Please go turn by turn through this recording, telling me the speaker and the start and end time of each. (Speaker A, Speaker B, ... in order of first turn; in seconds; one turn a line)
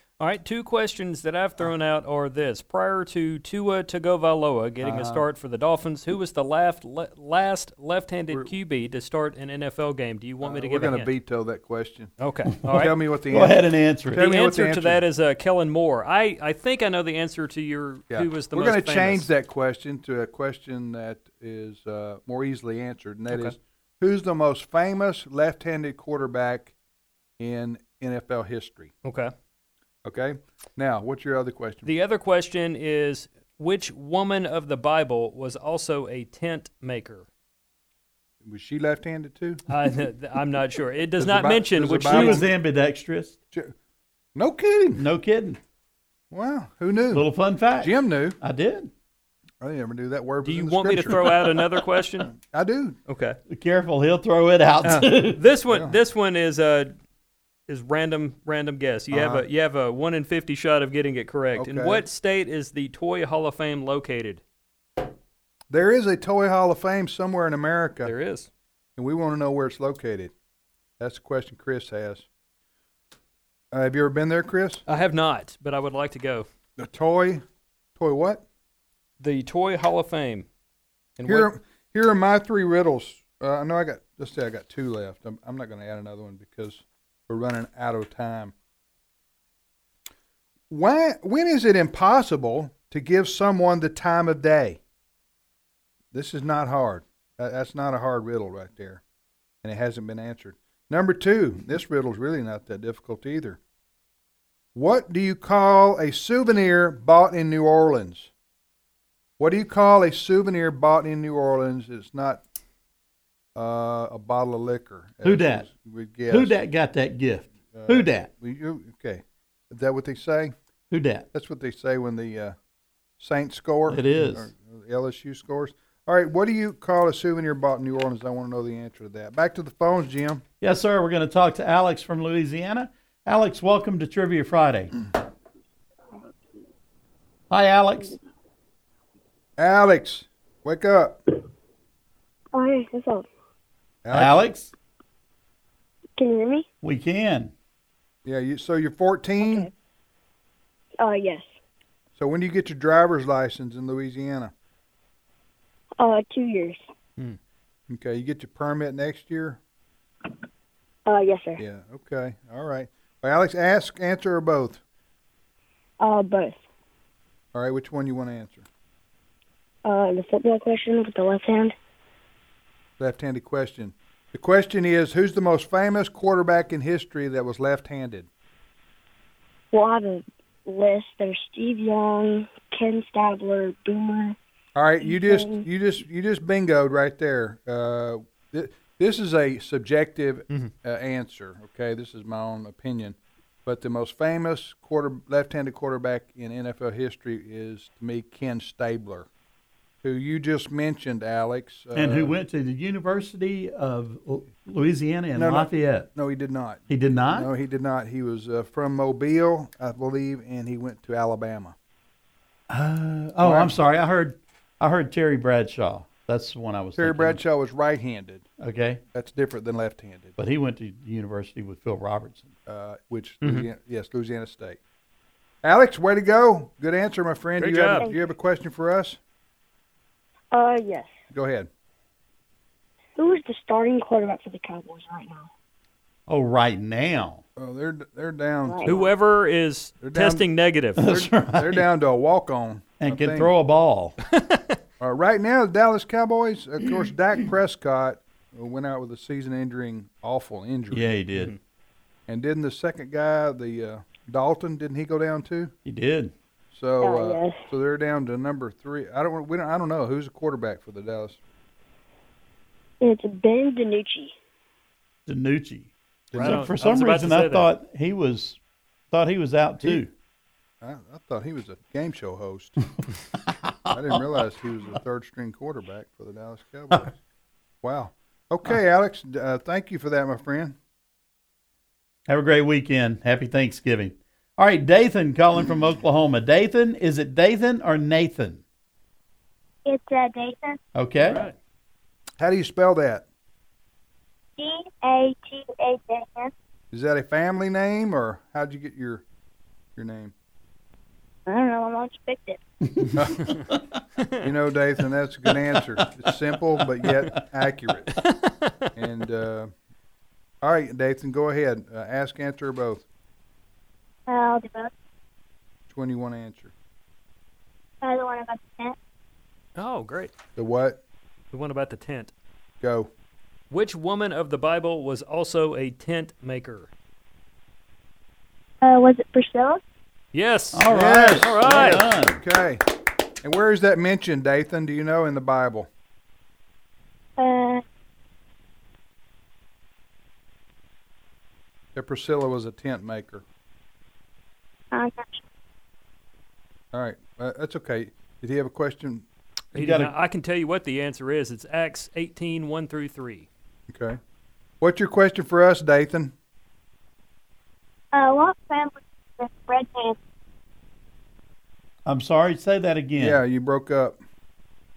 Speaker A: 0.2-11.1
Speaker B: 4.8-5.2
Speaker C: 10.4-12.1
Speaker A: 12.2-12.9
Speaker C: 12.6-15.0
Speaker B: 13.3-14.2
Speaker A: 14.2-19.3
Speaker C: 18.1-26.7
Speaker C: 27.4-28.9
Speaker A: 29.0-29.3
Speaker C: 30.0-31.9
Speaker A: 31.8-37.2
Speaker C: 38.4-39.6
Speaker A: 39.7-42.5
Speaker C: 41.2-42.5
Speaker B: 42.1-43.4
Speaker C: 44.3-45.0
Speaker B: 45.0-45.6
Speaker C: 46.3-47.3
Speaker B: 47.1-48.9
Speaker C: 47.8-48.4
Speaker C: 49.6-51.3
Speaker A: 50.4-52.3
Speaker C: 52.2-53.0
Speaker A: 53.1-53.4
Speaker B: 53.5-55.4
Speaker A: 55.2-56.9
Speaker C: 55.7-56.0
Speaker A: 57.7-64.4
Speaker C: 59.1-59.5
Speaker C: 61.5-62.0
Speaker C: 65.7-68.1
Speaker A: 68.0-68.5
Speaker C: 69.0-70.3
Speaker C: 71.0-72.3
Speaker C: 73.7-74.8
Speaker A: 74.9-76.5
Speaker C: 76.8-77.4
Speaker C: 78.0-78.4
Speaker A: 79.2-80.5
Speaker A: 81.2-81.5
Speaker C: 81.2-88.5
Speaker C: 90.7-94.8
Speaker C: 96.1-99.0
Speaker C: 99.6-103.6
Speaker C: 104.7-108.3
Speaker C: 109.4-112.4
Speaker C: 113.5-116.5
Speaker B: 115.2-115.7
Speaker B: 116.3-118.3
Speaker C: 117.7-120.5
Speaker B: 120.9-121.3
Speaker C: 121.3-122.5
Speaker C: 123.2-130.4
Speaker B: 123.9-124.5
Speaker B: 130.6-134.9
Speaker B: 137.5-138.2
Speaker C: 139.6-141.2
Speaker D: 142.5-143.3
Speaker C: 144.0-144.4
Speaker B: 144.1-144.7
Speaker D: 146.2-146.7
Speaker B: 146.8-147.5
Speaker C: 148.2-149.7
Speaker D: 149.4-149.7
Speaker D: 151.0-151.5
Speaker C: 152.2-154.5
Speaker D: 156.0-156.8
Speaker C: 157.9-159.6
Speaker D: 161.1-161.6
Speaker C: 161.6-164.8
Speaker D: 166.0-166.7
Speaker C: 167.5-168.7
Speaker D: 169.8-171.8
Speaker C: 173.0-178.3
Speaker D: 179.7-184.4
Speaker C: 184.7-199.3
Speaker D: 185.0-185.7
Speaker C: 200.0-202.3
Speaker B: 201.9-206.1
Speaker C: 205.3-211.8
Speaker B: 206.9-207.5
Speaker B: 212.7-217.4
Speaker C: 213.4-213.8
Speaker C: 216.9-218.5
Speaker B: 218.6-219.0
Speaker C: 219.1-220.4
Speaker B: 220.4-222.5
Speaker C: 222.7-224.8
Speaker A: 223.4-223.7
Speaker C: 225.6-229.2
Speaker A: 227.6-228.1
Speaker D: 230.5-231.2
Speaker C: 231.3-231.7
Speaker D: 233.2-235.5
Speaker B: 236.3-237.4
Speaker C: 237.6-239.0
Speaker D: 238.6-239.1
Speaker A: 238.8-241.0
Speaker C: 240.0-240.4
Speaker B: 241.0-241.9
Speaker C: 241.0-243.5
Speaker B: 243.0-244.2
Speaker A: 244.3-244.7
Speaker C: 245.0-251.1
Speaker B: 250.9-251.5
Speaker C: 252.3-255.7
Speaker B: 255.8-256.3
Speaker C: 256.7-261.4
Speaker D: 257.0-257.7
Speaker D: 263.0-264.3
Speaker B: 265.3-268.6
Speaker C: 266.3-266.7
Speaker A: 266.3-267.7
Speaker B: 269.1-270.1
Speaker C: 270.8-272.8
Speaker B: 273.3-274.4
Speaker C: 273.9-277.1
Speaker C: 277.8-280.8
Speaker B: 282.3-288.6
Speaker E: 289.9-290.8
Speaker B: 290.9-291.4
Speaker A: 291.2-291.6
Speaker C: 292.4-293.2
Speaker E: 294.6-296.5
Speaker C: 296.9-299.2
Speaker C: 299.9-300.3
Speaker E: 301.5-302.6
Speaker B: 302.9-304.0
Speaker C: 303.1-303.5
Speaker A: 304.2-304.5
Speaker C: 304.4-308.1
Speaker A: 308.1-308.9
Speaker C: 308.9-309.7
Speaker C: 310.6-313.0
Speaker E: 314.3-314.9
Speaker C: 315.9-316.7
Speaker E: 318.0-318.9
Speaker A: 319.8-320.3
Speaker C: 320.6-321.0
Speaker A: 321.5-322.3
Speaker C: 322.8-323.1
Speaker A: 323.7-326.9
Speaker E: 328.8-329.8
Speaker A: 330.3-332.1
Speaker B: 330.7-332.4
Speaker C: 330.9-332.8
Speaker C: 333.4-335.9
Speaker E: 337.4-337.8
Speaker C: 341.9-343.4
Speaker E: 344.9-345.4
Speaker C: 346.9-349.2
Speaker B: 349.7-350.1
Speaker A: 349.7-353.5
Speaker C: 353.9-354.2
Speaker C: 354.8-356.3
Speaker E: 358.1-360.2
Speaker B: 362.1-363.4
Speaker C: 363.2-364.2